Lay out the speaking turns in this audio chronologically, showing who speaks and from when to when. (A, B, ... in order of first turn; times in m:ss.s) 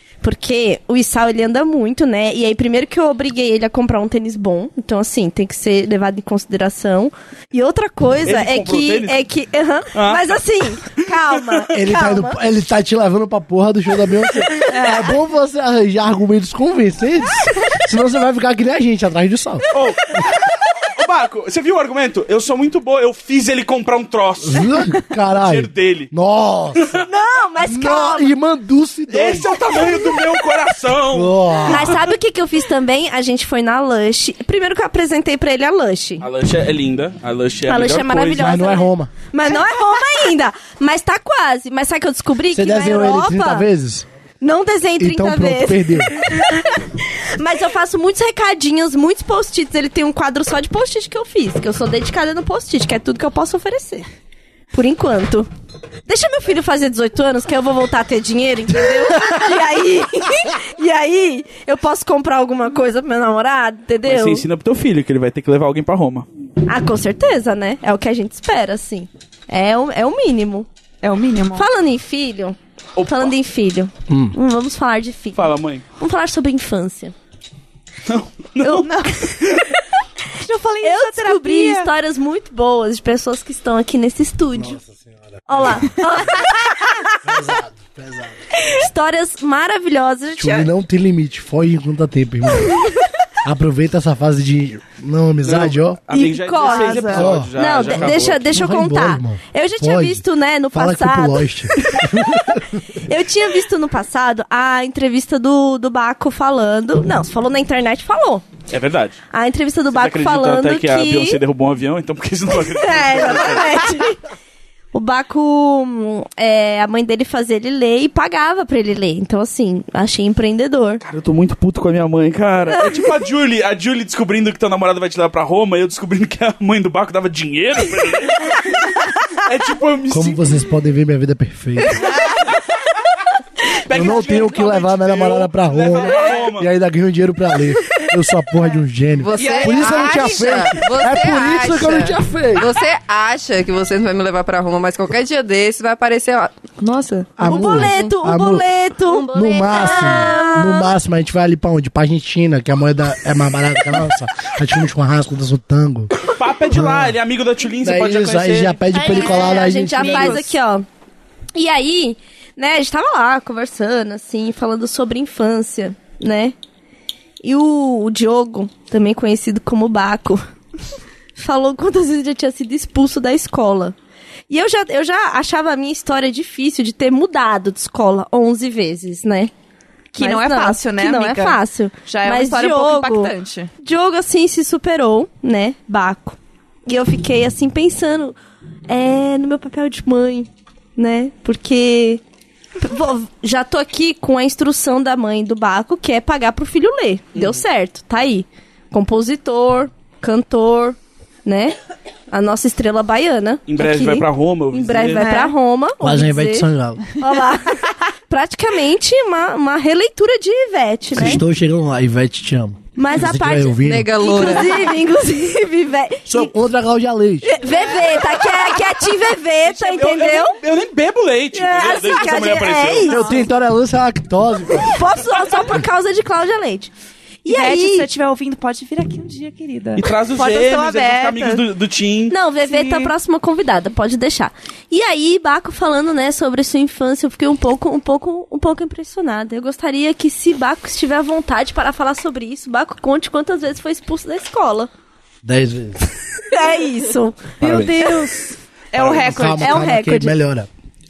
0:00.2-0:12.4 A
0:08.2-0:09.2 B
0:09.9-0:10.4 B
0:11.7-0:19.7 C
0:14.7-0:15.0 D
0:19.7-0:26.1 B
0:24.4-0:26.9 C
0:26.8-0:27.0 B
0:27.0-0:28.3 A
0:27.6-0:29.5 C
0:29.1-0:31.9 B
0:31.1-0:32.0 C
0:31.6-0:36.2 A
0:36.2-0:38.6 B
0:37.7-0:43.7 A
0:38.4-0:39.1 C
0:42.5-0:44.0 C
0:44.4-0:54.1 A
0:45.0-0:46.1 C
0:54.7-0:55.5 A
0:56.0-1:04.4 A
1:04.0-1:06.2 B
1:06.6-1:10.7 A
1:11.0-1:11.7 D
1:11.5-1:17.1 A
1:13.0-1:13.3 B
1:14.1-1:14.3 C
1:15.3-1:15.8 B
1:18.1-1:18.9 B
1:18.6-1:19.3 D
1:20.3-1:21.9 D
1:20.8-1:24.8 A
1:24.5-1:26.1 C
1:25.5-1:27.0 A
1:27.2-1:28.4 C
1:28.6-1:30.7 A
1:30.4-1:32.8 C
1:33.4-1:36.0 C
1:35.4-1:38.5 B
1:36.1-1:48.4 A
1:36.6-1:37.3 D
1:37.1-1:42.8 C
1:48.7-1:49.2 B
1:49.3-1:51.4 A
1:49.9-1:53.9 B
1:52.6-1:54.2 A
1:54.9-2:01.0 A
2:01.0-2:08.8 B
2:02.7-2:03.1 A
2:09.3-2:10.6 B
2:10.1-2:12.1 C
2:12.1-2:12.4 D
2:13.7-2:16.7 B
2:13.9-2:22.7 C
2:16.1-2:16.4 D
2:19.2-2:28.1 E
2:19.3-2:20.7 D
2:27.4-2:28.7 C
2:27.4-2:30.9 A
2:29.1-2:30.4 E
2:29.3-2:37.2 C
2:36.3-2:38.8 B
2:37.8-2:40.4 C
2:38.9-2:40.5 D
2:39.0-2:40.8 A
2:41.5-2:46.5 A
2:47.4-2:50.4 A
2:51.4-2:53.9 A
2:54.5-2:59.5 A
3:00.1-3:03.7 D
3:00.2-3:08.4 A
3:08.9-3:12.2 A
3:12.8-3:21.8 A
3:22.3-3:31.4 A
3:23.7-3:25.3 B
3:25.2-3:25.5 D
3:26.0-3:27.0 C
3:31.1-3:34.2 C
3:33.0-3:36.5 A
3:33.8-3:34.9 E
3:36.3-3:37.5 C
3:37.4-3:40.6 A
3:39.6-3:43.2 B
3:41.5-3:43.4 A
3:43.1-3:43.4 D
3:43.1-3:45.0 C
3:44.8-3:46.9 A
3:47.4-3:48.1 A
3:47.4-3:51.6 D
3:50.0-3:52.3 B
3:52.3-4:04.9 A
3:52.6-3:53.1 D
4:05.4-4:06.1 C
4:06.5-4:08.5 A
4:07.6-4:08.0 B
4:08.9-4:09.8 D
4:09.0-4:09.2 B
4:09.0-4:10.7 C
4:09.6-4:10.4 A